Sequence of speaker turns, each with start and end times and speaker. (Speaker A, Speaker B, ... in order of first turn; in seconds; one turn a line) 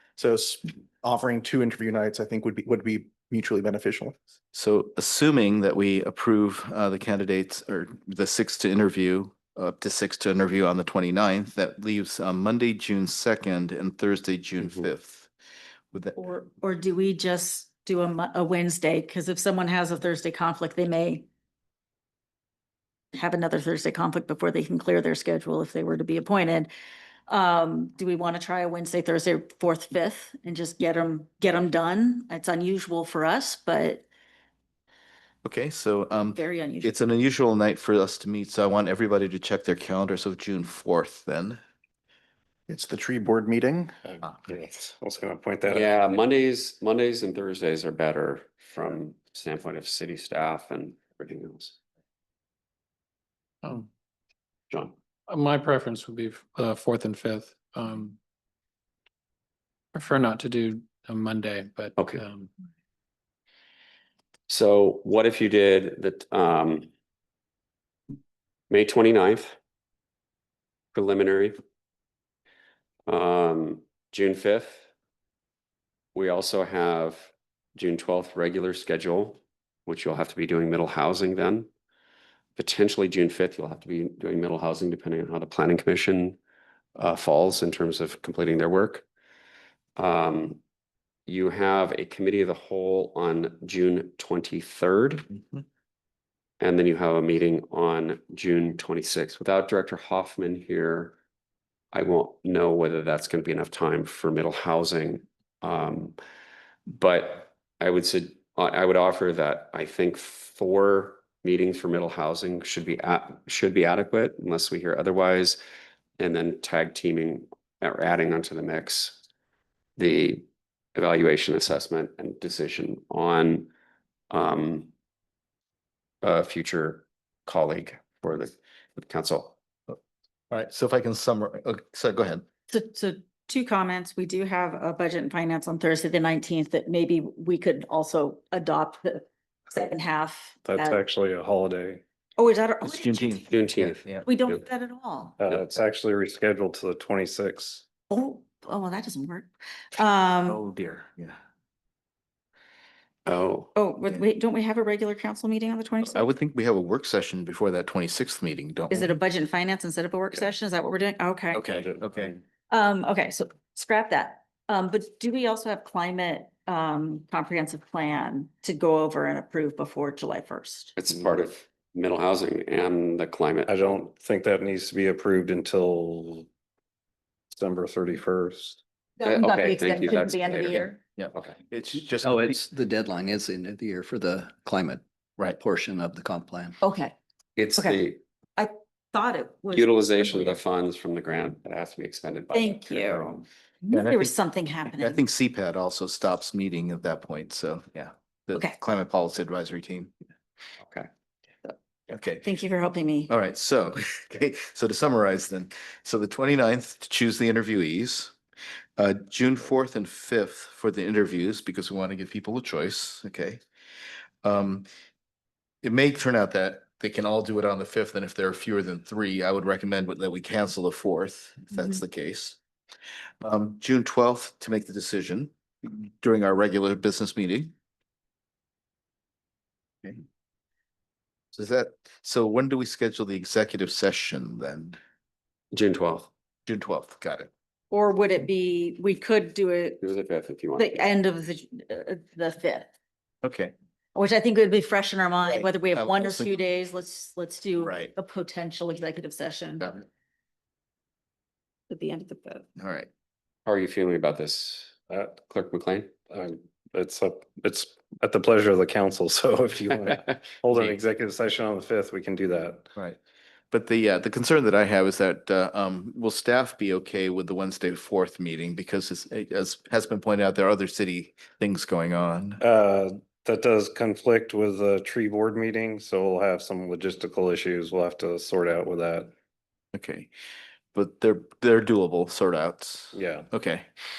Speaker A: 0.2-4.1
Speaker B: 4.5-15.3
Speaker C: 14.6-14.9
Speaker B: 15.9-16.2
Speaker D: 16.1-21.2
Speaker D: 23.1-26.7
Speaker D: 27.3-34.0
Speaker B: 35.4-41.6
Speaker D: 36.3-36.9
Speaker A: 42.7-43.9
Speaker E: 44.0-46.0
Speaker C: 45.7-51.8
Speaker F: 55.3-58.1
Speaker F: 59.9-62.4
Speaker C: 62.0-62.2
Speaker C: 64.5-66.9
Speaker C: 68.7-69.5
Speaker C: 70.9-71.6
Speaker C: 73.1-74.8
Speaker C: 76.1-81.7
Speaker C: 82.5-86.4
Speaker C: 86.9-89.0
Speaker C: 90.0-90.6
Speaker C: 91.3-95.2
Speaker C: 96.6-101.1
Speaker C: 101.9-106.2
Speaker C: 106.9-115.6
Speaker C: 116.2-119.2
Speaker C: 120.0-123.7
Speaker C: 124.3-124.9
Speaker C: 126.2-129.5
Speaker B: 130.5-132.4
Speaker D: 132.7-141.0
Speaker E: 140.6-142.0
Speaker D: 142.4-143.5
Speaker B: 142.8-144.3
Speaker C: 143.5-144.5
Speaker D: 144.2-145.3
Speaker E: 145.4-147.8
Speaker D: 148.1-150.6
Speaker B: 150.4-151.4
Speaker C: 153.2-153.7
Speaker D: 153.7-156.3
Speaker B: 156.0-159.2
Speaker D: 158.9-161.6
Speaker B: 161.5-162.3
Speaker E: 161.7-162.4
Speaker D: 162.7-170.9
Speaker C: 170.9-174.0
Speaker E: 173.7-176.5
Speaker E: 177.5-178.8
Speaker D: 179.2-181.0
Speaker C: 179.2-181.6
Speaker B: 180.8-182.6
Speaker G: 182.2-186.8
Speaker D: 186.8-187.1
Speaker C: 187.6-188.2
Speaker D: 187.7-188.0
Speaker D: 188.6-190.4
Speaker C: 189.7-193.4
Speaker D: 192.5-195.2
Speaker B: 193.9-194.3
Speaker B: 194.9-200.1
Speaker C: 200.8-201.1
Speaker B: 202.1-202.5
Speaker D: 202.4-203.3
Speaker B: 203.3-208.3
Speaker B: 209.0-213.6
Speaker B: 214.4-214.8
Speaker B: 215.8-222.6
Speaker B: 223.4-227.7
Speaker B: 231.5-235.0
Speaker C: 235.7-236.3
Speaker B: 236.7-237.5
Speaker D: 237.9-240.1
Speaker C: 240.0-241.0
Speaker D: 240.8-242.9
Speaker B: 243.4-243.7
Speaker D: 244.1-249.9
Speaker B: 245.4-246.5
Speaker B: 247.8-248.1
Speaker D: 251.9-252.6
Speaker B: 252.8-253.1
Speaker C: 253.7-256.1
Speaker E: 256.3-262.9
Speaker B: 263.7-272.6
Speaker E: 272.6-279.3
Speaker B: 279.9-280.3
Speaker B: 280.9-283.9
Speaker E: 283.1-283.5